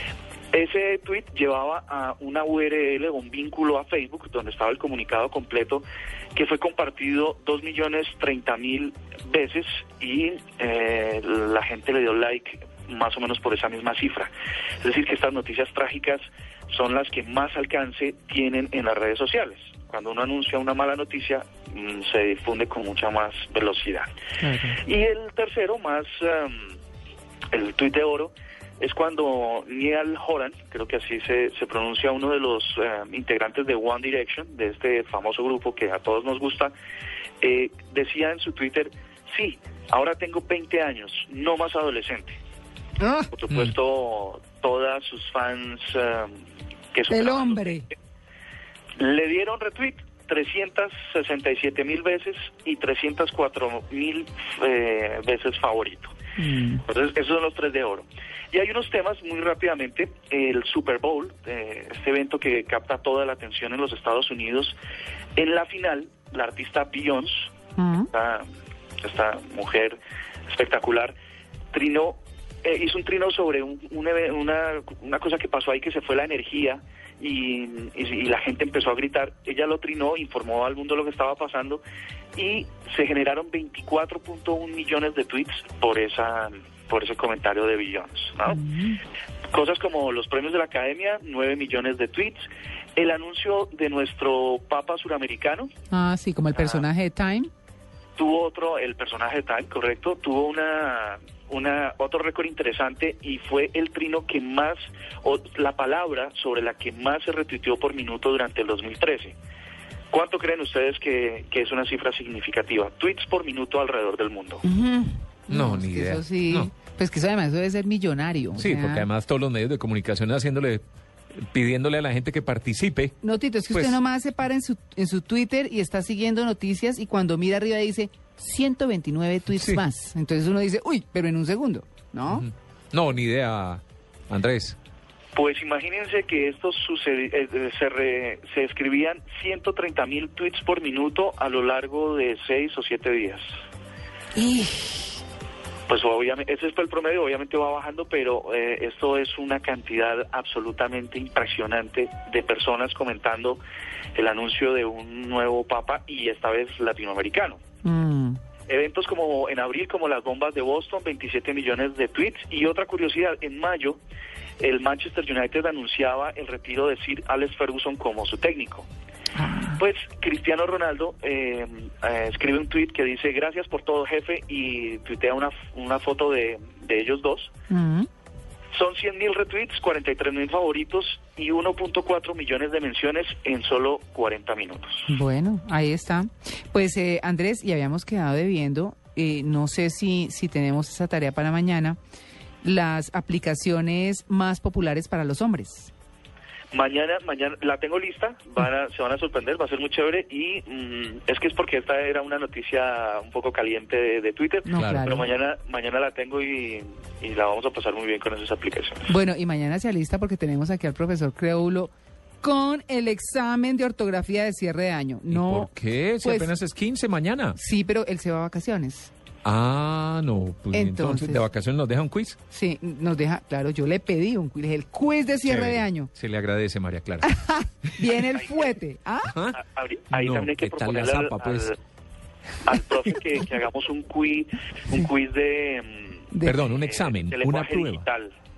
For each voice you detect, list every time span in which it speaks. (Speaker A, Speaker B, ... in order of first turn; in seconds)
Speaker A: 0.5-5.8, 6.3-24.1, 24.8-26.7, 27.5-36.7, 37.4-42.4, 43.3-46.4, 46.9-47.9, 49.0-56.1, 56.9-64.8, 65.4-67.5, 68.1-68.5, 69.0-71.1, 71.7-81.8, 82.3-88.6, 89.5-95.7, 96.5-96.8, 98.2-109.3, 110.1-114.6, 135.3-143.5, 145.9-153.6, 154.1-157.6, 158.7-164.0, 164.6-168.9, 169.8-177.5, 178.7-185.1, 196.7-209.1, 228.3-228.8, 229.5-231.8, 232.6-238.3
Speaker B: 24.4-24.8, 43.0-43.3, 47.1-47.9, 56.4-56.8, 67.8-68.1, 88.5-89.0, 95.9-97.5, 114.6-119.1, 123.2-132.5, 144.4-144.8, 157.8-158.4, 169.4-169.8, 177.7-178.1, 185.1-192.0, 192.6-195.9, 204.6-205.3, 209.1-216.5, 217.6-219.1, 220.7-221.4, 222.5-226.1, 227.2-229.3, 236.3-236.7
Speaker C: 115.5-116.7, 118.5-120.8, 121.4-123.1, 132.3-134.8, 204.7-205.1, 215.3-217.6, 219.4-222.4, 225.4-227.3, 229.3-229.6, 230.1-231.7, 236.4-238.1